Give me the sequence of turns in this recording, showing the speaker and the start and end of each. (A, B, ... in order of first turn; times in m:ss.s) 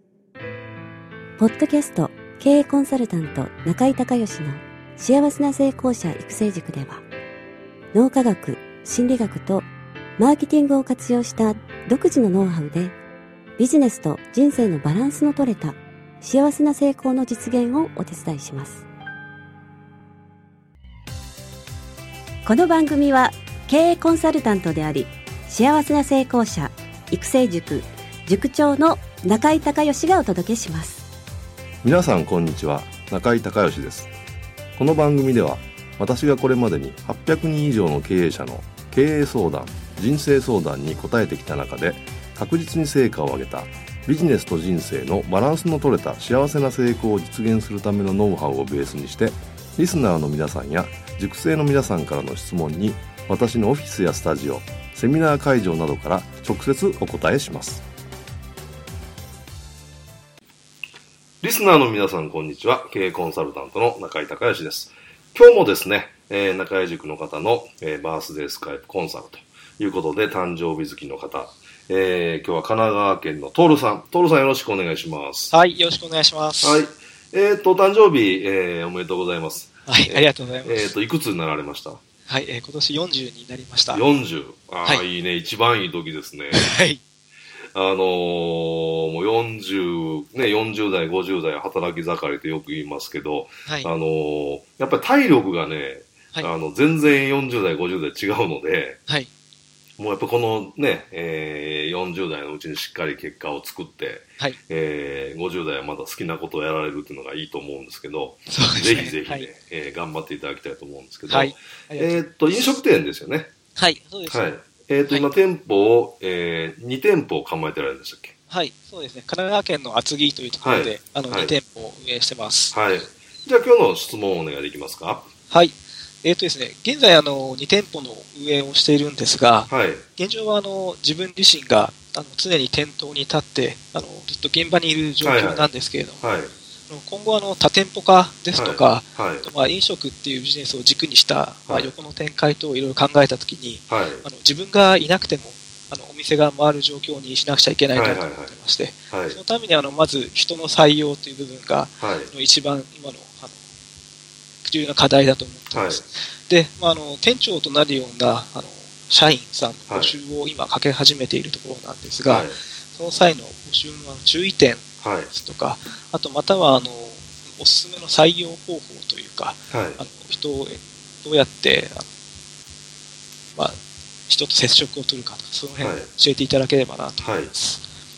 0:01.4-0:07.0 A
0:07.9-0:13.0 A
0:13.6-0:18.9 A
0:22.4-0:31.0 A
0:31.8-0:34.1 B
0:34.8-0:57.8 B
1:01.4-1:15.5 B
1:15.5-1:16.8 C
1:16.6-1:22.0 B
1:19.9-1:20.8 C
1:22.3-1:24.0 C
1:23.9-1:26.7 B
1:26.5-1:27.0 C
1:27.7-1:39.0 B
1:40.0-1:53.5 B
1:48.5-1:49.4 C
1:51.3-1:52.2 C
1:53.8-1:54.4 C
1:54.3-1:58.3 B
1:58.5-2:02.8 C
2:00.6-2:01.5 B
2:02.7-2:05.3 B
2:05.5-2:16.2 C
2:09.7-2:10.0 B
2:15.2-2:15.7 B
2:16.2-2:16.5 B
2:16.9-2:33.6 C
2:18.6-2:19.5 B
2:23.9-2:24.2 B
2:27.9-2:28.5 B
2:29.1-2:29.4 B
2:32.0-2:32.3 B
2:34.6-2:52.0 C
2:35.7-2:36.0 B
2:39.9-2:40.2 B
2:42.2-2:42.6 B
2:45.0-2:45.3 B
2:49.7-2:50.0 B
2:54.3-2:57.8 C
2:55.8-2:56.1 B
2:57.2-2:57.5 B